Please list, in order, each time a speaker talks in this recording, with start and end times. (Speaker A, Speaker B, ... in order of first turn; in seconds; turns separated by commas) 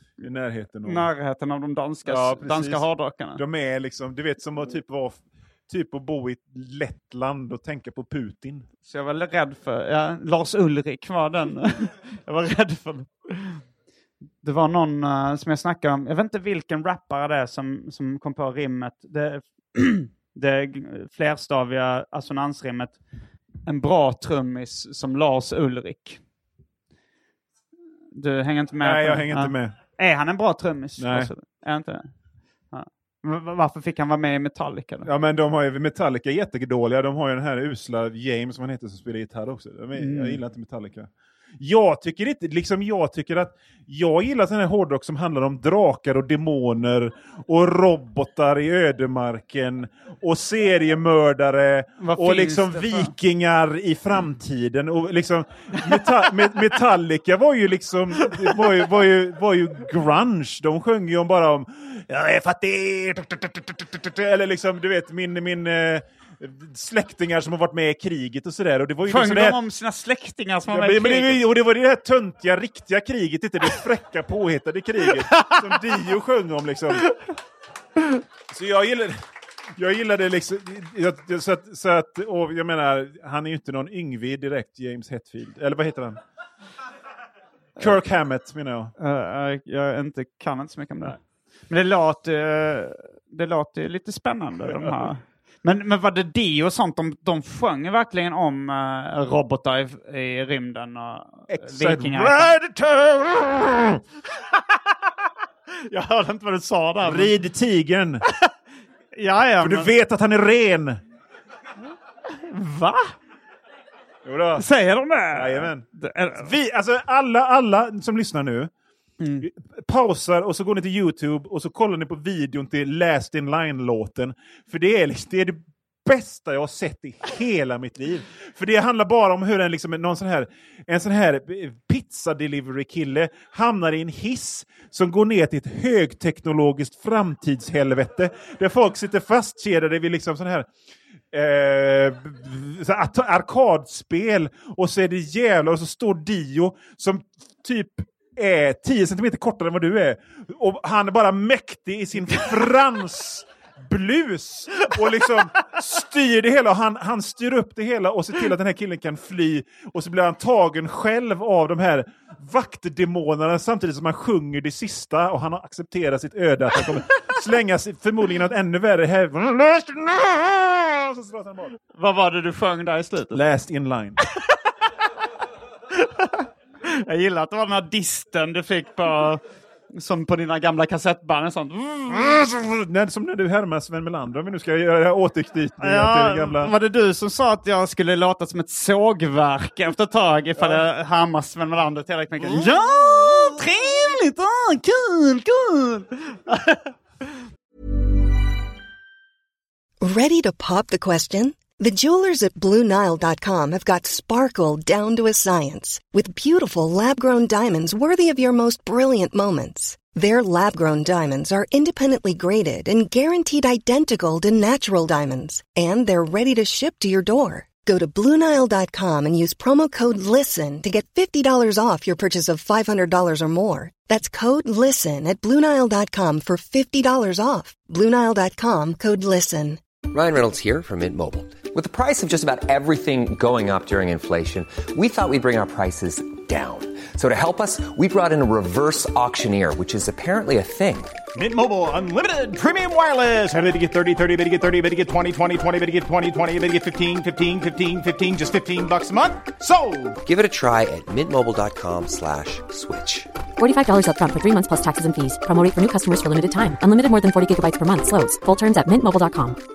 Speaker A: 0.2-1.1, Speaker B: 0.8-3.4, Speaker A: 2.0-8.7, Speaker B: 8.9-13.6, Speaker B: 14.4-23.0, Speaker B: 23.6-26.2, Speaker B: 28.1-32.1, Speaker A: 28.8-29.7, Speaker A: 31.0-31.3, Speaker B: 32.7-35.1, Speaker A: 35.0-69.6, Speaker B: 40.0-40.4, Speaker B: 52.0-53.1, Speaker B: 58.2-58.6, Speaker B: 69.0-71.4, Speaker A: 70.7-77.1, Speaker A: 78.5-79.2, Speaker A: 79.8-86.2, Speaker A: 87.8-88.9, Speaker B: 89.0-102.5, Speaker A: 101.5-104.0, Speaker B: 105.9-107.3, Speaker A: 107.0-108.2, Speaker B: 109.1-109.9, Speaker A: 109.6-111.0, Speaker B: 112.4-113.1, Speaker A: 114.2-114.7, Speaker B: 114.5-116.5, Speaker A: 115.3-118.7, Speaker B: 119.2-119.5, Speaker A: 119.4-140.7, Speaker A: 141.3-171.8, Speaker B: 171.9-173.4, Speaker A: 173.3-174.2, Speaker B: 176.0-179.4, Speaker B: 179.9-182.3, Speaker A: 182.1-186.7, Speaker B: 185.8-196.9, Speaker A: 190.6-190.8, Speaker A: 192.4-193.6, Speaker C: 200.0-229.8, Speaker D: 230.1-241.2, Speaker E: 241.3-250.2, Speaker D: 250.2-253.3, Speaker F: 253.6-259.6